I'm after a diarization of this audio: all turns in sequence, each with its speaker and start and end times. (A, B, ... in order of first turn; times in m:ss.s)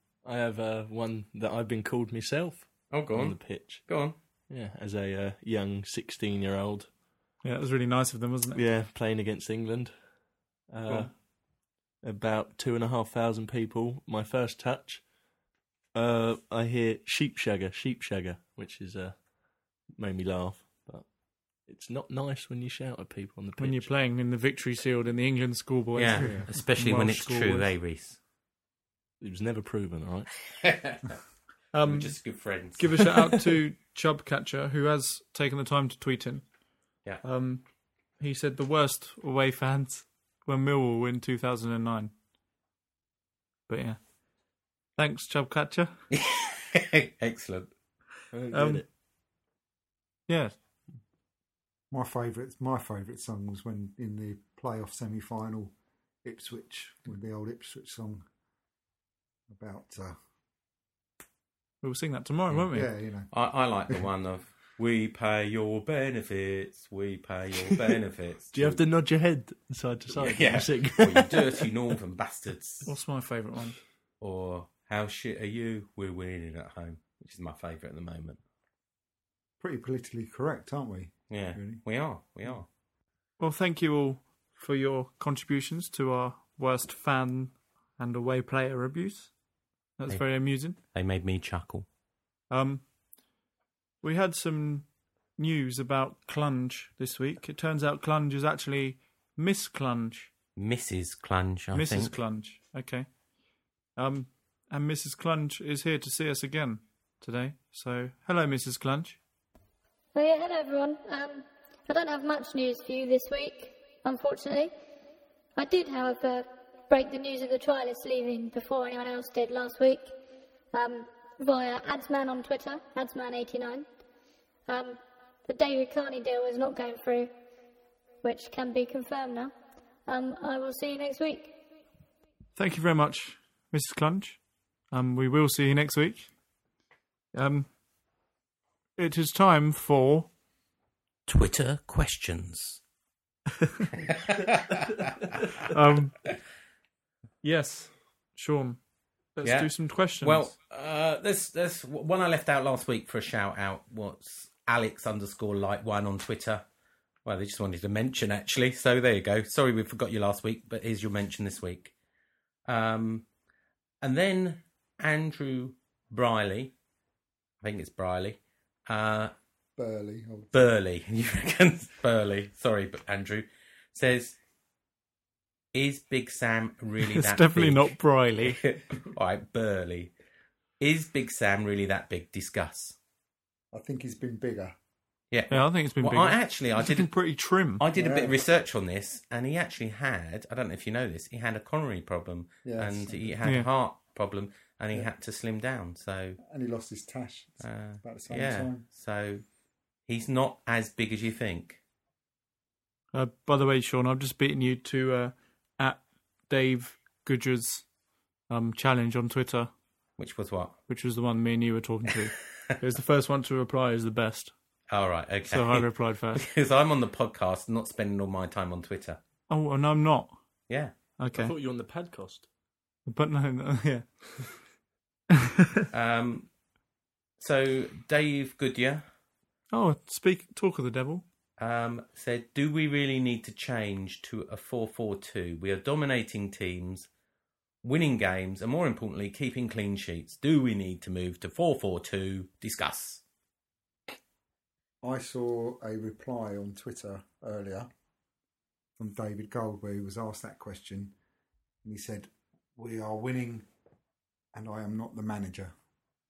0:00.2-0:03.9 A
0:02.9-0:04.2 B
0:04.5-0:06.9 A
0:07.4-0:08.6 C
0:08.5-0:10.0 A
0:10.7-0:11.2 A
0:12.0-0:15.1 A
0:15.9-0:19.3 A
0:19.8-0:23.9 A
0:23.6-0:27.7 C
0:25.9-0:28.2 B
0:26.2-0:26.5 D
0:29.2-0:30.3 A
0:30.6-0:31.2 B
0:31.7-0:36.4 C
0:31.8-0:33.1 B
0:37.2-0:37.6 C
0:38.2-0:42.1 C
0:43.7-0:44.0 C
0:45.0-0:45.9 C
0:46.1-0:47.7 B
0:48.3-0:48.8 A
0:48.5-0:48.8 C
0:50.3-0:50.5 C
0:51.9-0:58.2 D
0:59.5-1:00.2 D
1:01.8-1:02.9 C
1:02.7-1:03.3 D
1:03.3-1:08.8 B
1:08.5-1:11.7 A
1:10.2-1:12.9 B
1:12.8-1:13.8 C
1:14.2-1:18.4 B
1:19.6-1:21.8 D
1:21.3-1:22.7 B
1:23.4-1:29.3 C
1:30.0-1:30.8 C
1:30.1-1:31.8 B
1:32.5-1:32.8 C
1:34.0-1:40.3 C
1:40.6-1:42.1 B
1:41.7-1:43.1 C
1:44.0-1:49.2 C
1:50.1-1:54.7 E
1:55.6-2:00.1 E
2:00.7-2:03.8 E
2:04.7-2:07.3 E
2:08.2-2:09.5 E
2:10.1-2:11.6 E
2:12.6-2:14.4 C
2:14.9-2:16.3 C
2:17.3-2:17.7 C
2:19.0-2:20.3 C
2:21.3-2:22.8 B
2:24.0-2:25.1 B
2:25.7-2:26.1 C
2:27.4-2:28.8 C
2:29.3-2:30.5 C
2:29.4-2:36.6 B
2:37.2-2:41.9 B
2:42.7-2:43.2 B
2:44.0-2:46.7 B
2:47.6-2:49.3 B
2:49.8-2:50.7 D
2:50.5-2:54.4 B
2:55.7-3:00.1 B
2:57.0-2:58.6 C
3:00.8-3:03.0 B
3:03.7-3:04.7 D
3:05.3-3:07.1 B
3:05.5-3:07.8 C
3:07.8-3:16.4 B
3:07.9-3:08.4 D
3:12.6-3:13.4 D
3:16.4-3:18.8 D
3:17.6-3:19.4 B
3:20.1-3:21.8 B
3:23.1-3:27.8 C
3:28.5-3:29.7 C
3:30.2-3:30.8 B
3:30.9-3:34.5 C
3:34.9-3:39.2 B
3:35.4-3:36.4 C
3:39.5-3:40.4 C
3:40.7-3:40.9 B
3:41.2-3:41.5 C
3:41.3-3:42.4 A
3:43.0-3:44.1 C
3:45.9-3:46.5 B
3:47.4-3:49.0 B
3:49.7-3:51.2 C
3:51.6-3:57.1 B
3:57.8-4:03.2 B
4:05.0-4:07.9 D
4:09.0-4:11.1 D
4:11.8-4:13.7 D
4:14.5-4:15.7 D